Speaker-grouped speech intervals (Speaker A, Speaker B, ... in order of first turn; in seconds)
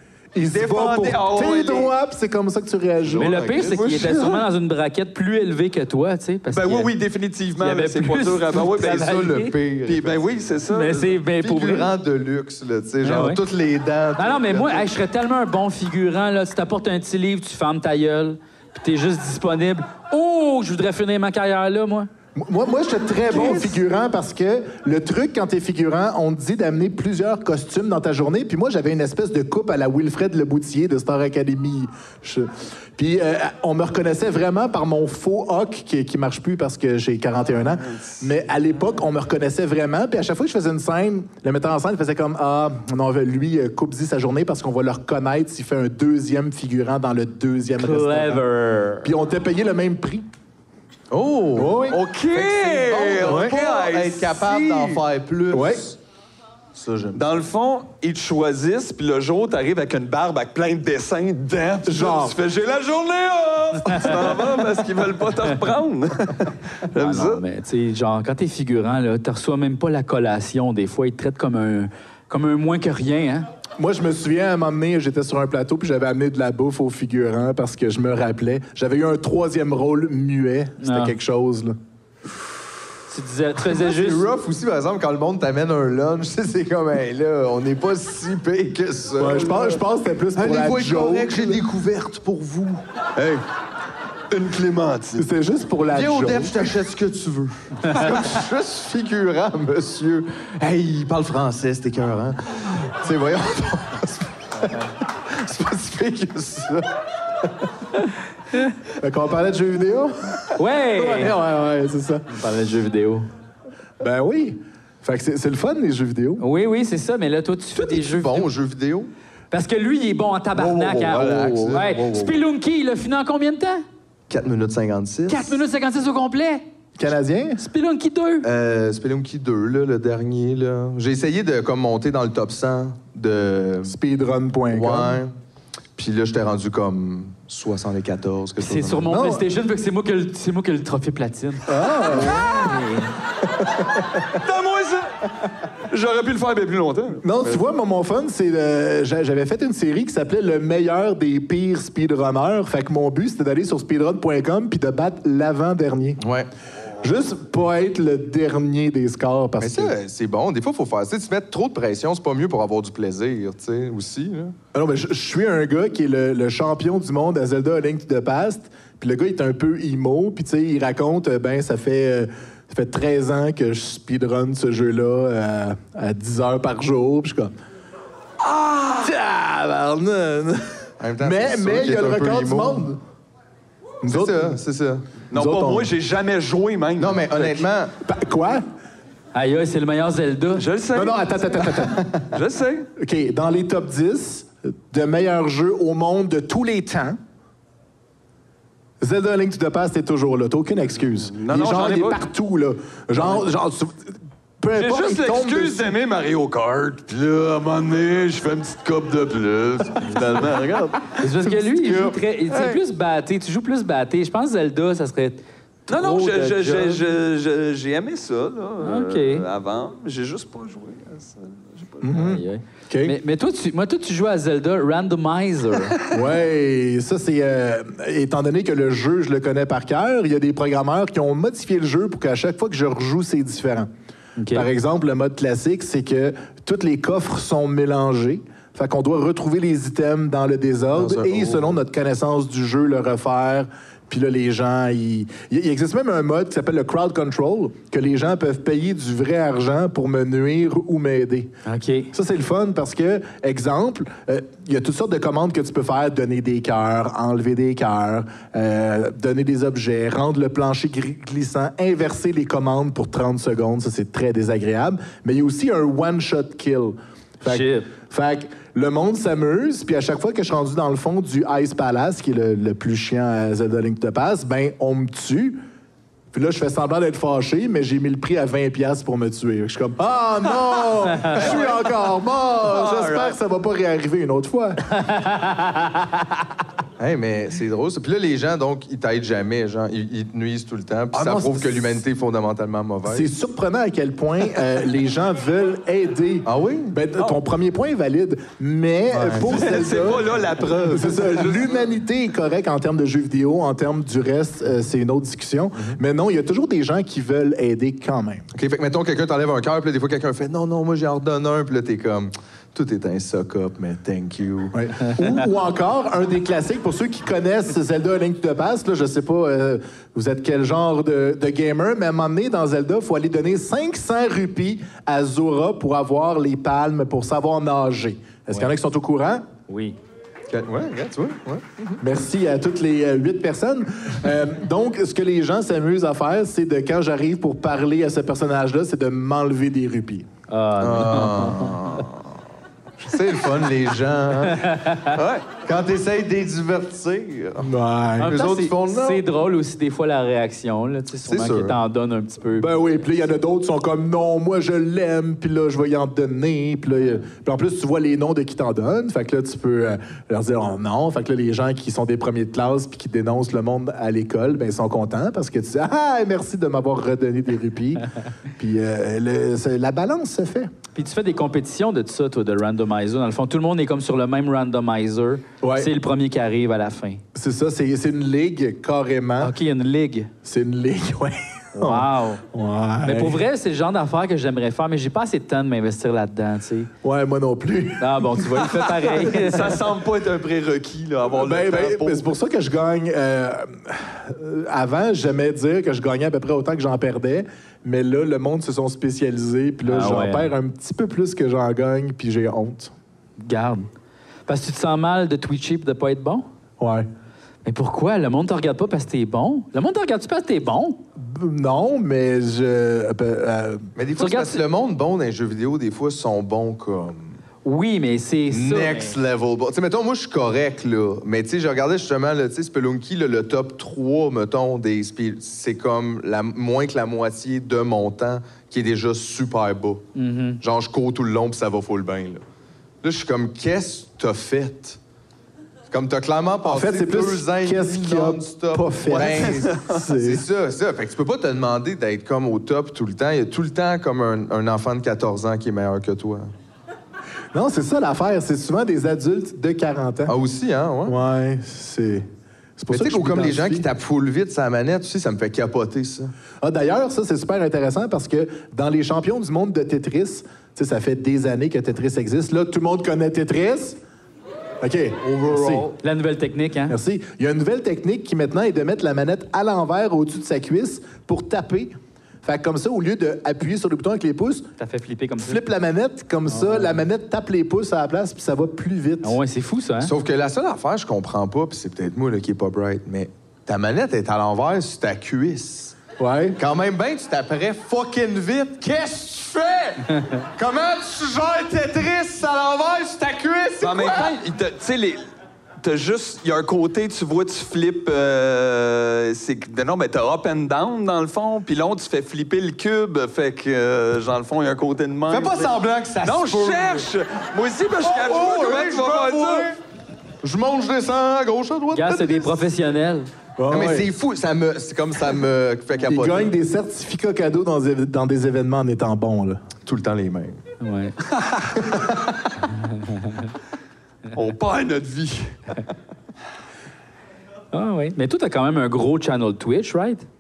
Speaker A: 0.3-3.7, 22.4-48.4, 49.0-50.3, 51.6-52.0, 55.5-55.9, 61.9-62.4, 73.8-81.7, 89.2-91.6, 95.2-96.5, 109.0-110.4, 110.9-112.2, 114.0-116.4, 127.0-127.6, 133.8-135.2, 139.1-139.4, 141.7-142.8, 143.7-144.0, 147.2-156.2, 157.0-159.9, 164.7-177.5, 178.7-183.0, 184.0-184.6, 185.3-185.9, 188.0-188.6, 190.9-192.3, 193.0-197.2, 199.0-205.9, 222.0-223.2, 226.1-233.9, 234.5-251.5, 252.1-275.6, 276.3-284.8, 291.1-291.9, 293.1-300.3, 300.9-308.4, 314.7-329.5, 332.0-340.3, 347.6-348.3, 352.5-368.1, 368.6-370.7, 375.6-375.9, 377.4-379.5, 380.4-383.4, 387.0-389.0, 391.4-402.9, 406.8-407.1, 411.2-413.9, 436.7-440.4, 447.5-450.4, 451.1-452.3, 452.8-453.9, 456.6-464.0, 464.8-465.9, 466.9-474.7, 475.4-479.4, 486.2-486.6, 513.6-514.1, 516.0-519.6
Speaker B: 0.4-1.9, 3.2-4.5, 6.5-9.2, 9.8-11.2, 51.9-55.0, 57.1-67.4, 93.2-93.4, 94.3-95.2, 97.9-98.3, 121.4-121.8, 144.4-145.1, 145.9-147.6, 185.3-187.6, 190.6-192.9, 201.3-202.2, 204.8-212.8, 215.9-222.0, 281.3-281.8, 282.6-283.4, 299.4-301.9, 345.1-345.5, 389.2-392.3, 439.2-440.0, 493.8-495.2, 495.8-509.7, 521.4-521.8, 524.3-525.5
Speaker C: 3.2-6.9, 7.6-9.6, 10.7-11.9, 13.0-13.4, 14.2-22.1, 23.3-23.6, 47.8-49.1, 67.0-73.5, 80.8-81.1, 83.1-84.3, 110.6-111.3, 112.3-113.3, 116.4-118.5, 119.5-123.8, 125.3-126.6, 127.6-128.5, 138.6-143.1, 189.3-190.7, 211.2-217.0, 218.8-219.4, 222.1-226.0, 234.4-234.7, 251.7-252.1, 267.5-267.9, 285.1-285.9, 329.7-330.0, 340.5-341.8, 344.5-345.1, 348.2-353.0, 370.9-377.2, 379.4-380.3, 381.8-382.4, 383.0-386.9, 388.0-389.7, 399.9-400.5, 403.4-403.9, 404.5-406.5, 407.6-411.0, 414.2-414.6, 417.6-419.1, 430.1-430.6, 465.9-466.9, 474.8-475.6, 476.5-477.0, 479.2-480.1, 511.9-513.3, 520.8-521.1, 522.9-523.5, 527.7-530.3
Speaker D: 8.8-10.3, 11.4-14.9, 51.1-56.0, 56.8-57.4, 83.6-89.8, 90.3-92.8, 95.9-106.8, 117.8-119.1, 120.5-122.4, 124.3-125.6, 128.4-133.9, 134.7-135.3, 136.0-139.1, 156.2-156.5, 159.6-164.6, 181.0-182.9, 184.0-185.1, 187.0-187.9, 240.9-241.8, 281.4-281.7, 287.0-293.3, 296.4-296.9, 299.1-299.6, 308.5-314.8, 330.5-332.0, 340.8-342.2, 343.0-344.7, 345.5-349.2, 351.3-351.8, 414.0-417.4, 418.5-430.1, 430.6-432.4, 433.0-435.0, 435.9-446.5, 450.3-451.2, 452.9-456.3, 465.2-465.8, 480.0-486.0, 486.6-494.3, 505.3-507.1, 508.0-509.8, 510.4-512.6, 513.7-516.5, 519.9-520.6, 522.0-522.2